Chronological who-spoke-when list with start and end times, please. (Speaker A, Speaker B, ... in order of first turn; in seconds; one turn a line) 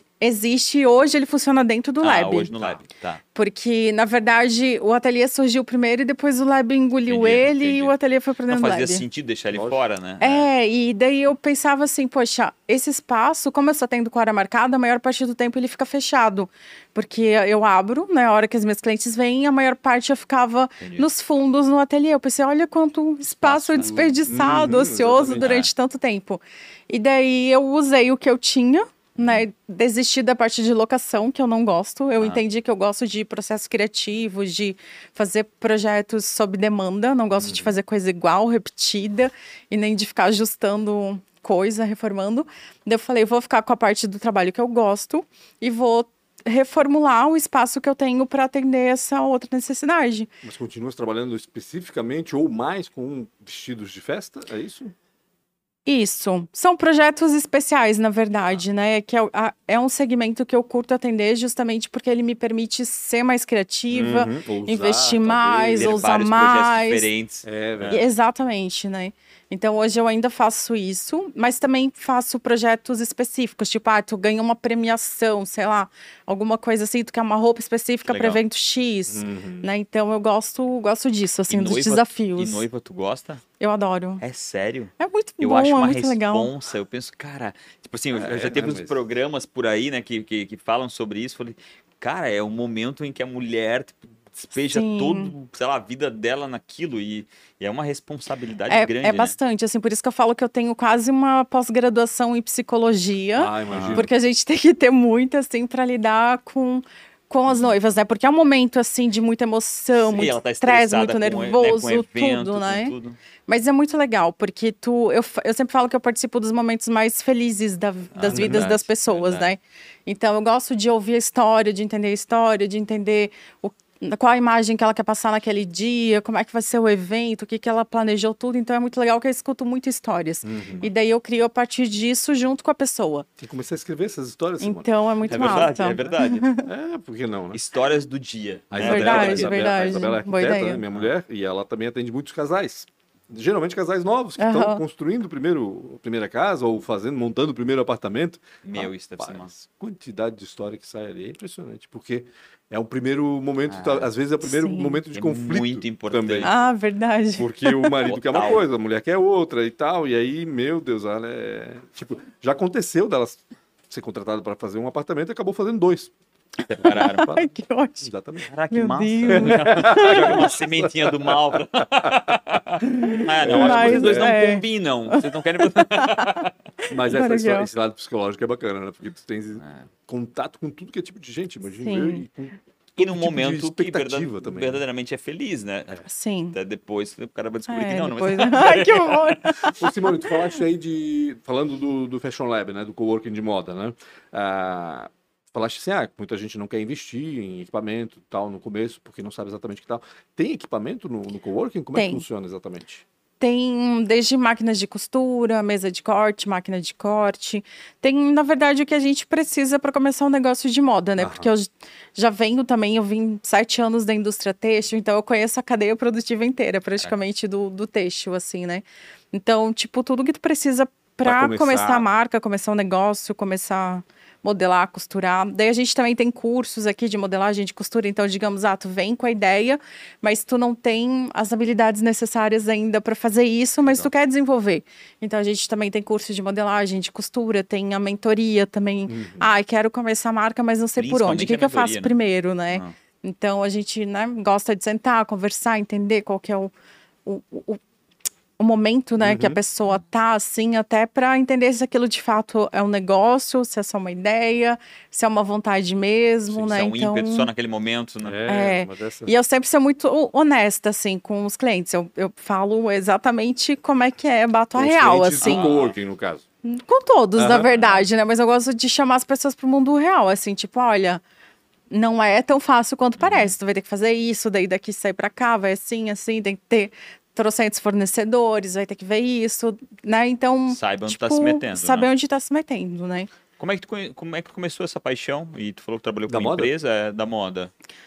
Speaker A: 0.2-2.5
Speaker B: 2.0-3.2
Speaker A: 3.3-9.0
Speaker B: 7.1-8.0
Speaker B: 8.5-10.5
Speaker A: 10.2-50.3
Speaker B: 20.8-21.1
Speaker B: 23.3-24.2
Speaker C: 23.8-25.6
Speaker B: 25.3-25.7
Speaker B: 29.2-29.4
Speaker C: 37.4-37.7
Speaker C: 50.4-54.9
Speaker A: 55.9-67.1
Speaker C: 63.9-66.1
Speaker B: 65.8-68.0
Speaker C: 67.5-68.0
Speaker A: 67.9-82.6
Speaker B: 78.1-78.4
Speaker C: 79.1-79.7
Speaker B: 81.5-83.4
Speaker A: 83.6-84.2
Speaker B: 84.2-99.3
Speaker A: 85.0-86.5
Speaker C: 88.1-89.0
Speaker A: 94.7-95.3
Speaker A: 98.7-112.9
Speaker C: 103.4-104.1
Speaker B: 103.7-104.1
Speaker B: 110.0-113.2
Speaker A: 113.5-133.3
Speaker B: 118.2-119.5
Speaker C: 118.3-118.7
Speaker C: 130.4-130.9
Speaker C: 133.4-136.1
Speaker A: 134.6-136.7
Speaker B: 135.3-136.5
Speaker C: 136.6-137.6
Speaker B: 137.5-139.8
Speaker C: 138.7-156.5
Speaker A: 138.8-140.8
Speaker A: 144.4-144.8
Speaker B: 148.6-149.5
Speaker B: 153.7-154.1
Speaker A: 154.4-155.0
Speaker B: 155.1-156.5
Speaker A: 156.4-158.0
Speaker C: 157.4-166.1
Speaker B: 158.1-158.6
Speaker B: 166.7-167.3
Speaker C: 166.8-167.5
Speaker A: 166.8-168.1
Speaker C: 168.0-168.5
Speaker B: 168.5-176.5
Speaker A: 168.7-170.5
Speaker C: 169.3-172.1
Speaker C: 172.9-174.4
Speaker A: 173.1-177.7
Speaker C: 176.9-184.8
Speaker A: 181.8-182.2
Speaker B: 183.0-189.7
Speaker A: 186.1-186.6
Speaker A: 187.7-190.3
Speaker C: 189.8-203.0
Speaker A: 201.9-202.2
Speaker A: 203.4-246.7
Speaker C: 211.2-211.5
Speaker C: 221.2-222.1
Speaker C: 239.1-239.5
Speaker B: 241.0-242.2
Speaker A: 247.3-247.8
Speaker A: 248.6-257.5
Speaker C: 249.2-249.6
Speaker B: 256.5-258.5
Speaker C: 258.2-259.3
Speaker A: 258.5-265.7
Speaker C: 264.8-266.4
Speaker B: 265.4-265.9
Speaker A: 266.6-271.2
Speaker C: 267.4-267.7
Speaker B: 267.8-268.0
Speaker A: 271.9-283.3
Speaker B: 273.2-273.5
Speaker B: 280.7-282.1
Speaker B: 283.6-287.7
Speaker C: 286.3-286.7